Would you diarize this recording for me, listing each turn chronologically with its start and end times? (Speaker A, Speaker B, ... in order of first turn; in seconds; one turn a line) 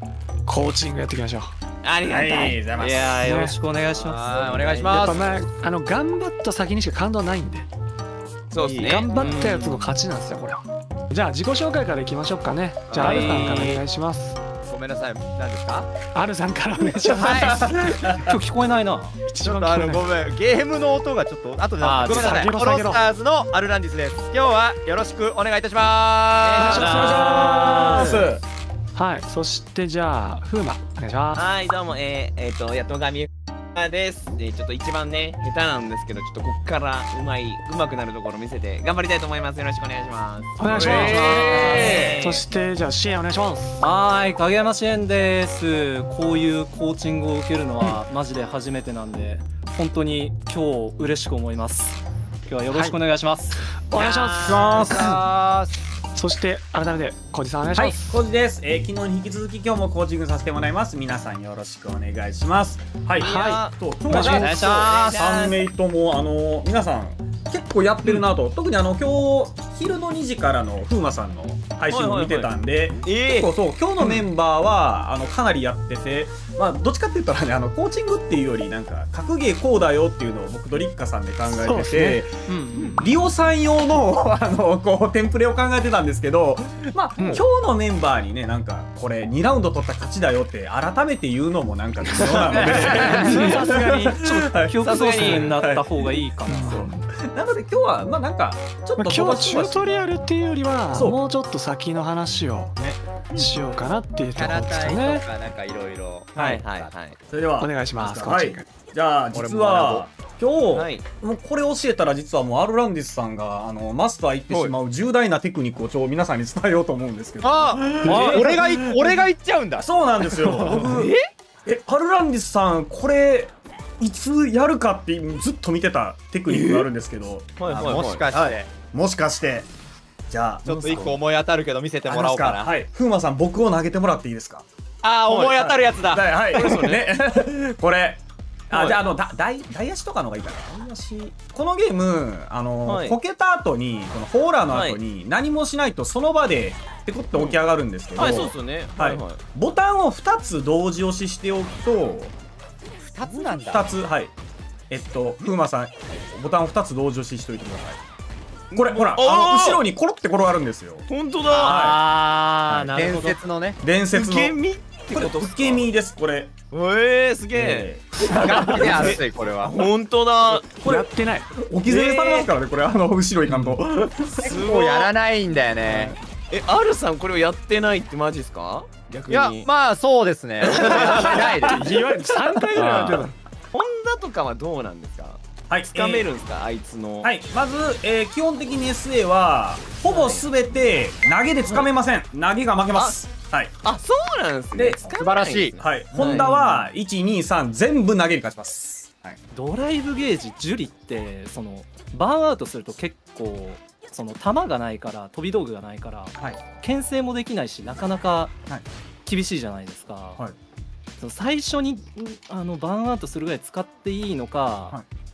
Speaker A: 0.5-1.5
Speaker B: 1.8-3.2
Speaker C: 2.0-3.2
Speaker D: 3.0-5.1
Speaker A: 3.2-3.6
Speaker E: 3.9-5.2
Speaker B: 4.6-5.0
Speaker A: 4.9-7.7
Speaker B: 8.5-9.1
Speaker E: 8.6-9.0
Speaker A: 8.8-14.4
Speaker D: 9.1-9.9
Speaker B: 12.9-13.8
Speaker D: 12.9-13.8
Speaker E: 14.6-15.9
Speaker A: 16.1-17.8
Speaker E: 17.0-17.7
Speaker D: 17.4-19.1
Speaker C: 17.8-18.3
Speaker A: 19.3-20.1
Speaker E: 19.4-26.8
Speaker D: 21.8-22.5
Speaker A: 22.1-23.0
Speaker B: 26.4-27.8
Speaker A: 26.6-28.2
Speaker C: 26.6-28.4
Speaker D: 26.8-28.2
Speaker A: 28.9-31.4
Speaker B: 31.3-42.5
Speaker A: 40.6-43.8
Speaker E: 40.7-42.1
Speaker D: 41.5-42.0
Speaker D: 43.8-53.7
Speaker A: 52.7-53.0
Speaker A: 53.8-55.2
Speaker E: 53.9-55.7
Speaker C: 54.4-55.1
Speaker A: 56.1-58.2
Speaker C: 57.7-95.9
Speaker B: 63.2-63.7
Speaker A: 63.2-63.6
Speaker D: 64.1-64.6
Speaker E: 64.1-65.2
Speaker B: 64.3-65.7
Speaker B: 71.9-73.5
Speaker A: 81.5-82.2
Speaker D: 82.5-83.2
Speaker B: 92.2-93.6
Speaker D: 92.7-96.9
Speaker A: 92.9-94.2
Speaker B: 94.8-95.6
Speaker A: 96.5-97.0
Speaker C: 96.6-99.9
Speaker A: 99.0-102.8
Speaker C: 100.9-101.2
Speaker C: 102.8-103.4
Speaker A: 103.3-105.2
Speaker E: 104.3-106.9
Speaker B: 106.3-107.2
Speaker C: 106.3-106.6
Speaker C: 107.3-119.3
Speaker A: 107.6-108.7
Speaker E: 109.3-110.1
Speaker B: 110.7-111.0
Speaker E: 117.4-119.9
Speaker D: 118.0-118.6
Speaker C: 119.8-121.1
Speaker E: 120.5-120.8
Speaker B: 120.8-121.3
Speaker C: 121.6-128.1
Speaker B: 126.5-126.9
Speaker B: 127.6-128.2
Speaker E: 127.7-128.7
Speaker C: 128.9-129.7
Speaker C: 130.3-131.2
Speaker E: 130.6-132.7
Speaker C: 132.0-134.6
Speaker E: 135.0-136.9
Speaker C: 135.3-152.3
Speaker B: 136.5-137.1
Speaker B: 138.7-139.0
Speaker B: 142.8-143.2
Speaker B: 144.7-145.0
Speaker B: 147.3-147.6
Speaker B: 148.2-149.4
Speaker E: 153.1-153.9
Speaker C: 153.7-154.3
Speaker C: 154.9-158.0
Speaker B: 158.7-159.8
Speaker C: 158.7-161.1
Speaker B: 161.1-161.9
Speaker D: 161.6-163.4
Speaker C: 161.6-162.0
Speaker E: 162.7-163.8
Speaker C: 163.8-164.6
Speaker B: 164.1-165.9
Speaker C: 165.1-166.6
Speaker B: 166.7-170.7
Speaker C: 167.5-169.1
Speaker E: 168.3-169.8
Speaker C: 170.6-174.6
Speaker A: 170.8-171.4
Speaker B: 171.8-172.5
Speaker A: 173.5-173.8
Speaker B: 174.4-175.1
Speaker E: 174.4-176.2
Speaker B: 175.8-179.7
Speaker E: 179.3-181.9
Speaker B: 180.6-181.5
Speaker A: 181.0-183.3
Speaker B: 183.7-187.3
Speaker C: 185.7-186.3
Speaker C: 187.2-193.7
Speaker B: 190.0-190.5
Speaker B: 193.8-196.5
Speaker C: 194.7-195.1
Speaker E: 195.0-195.7
Speaker C: 195.8-199.4
Speaker D: 196.1-196.9
Speaker D: 199.5-208.5
Speaker D: 209.2-210.4
Speaker D: 211.2-215.0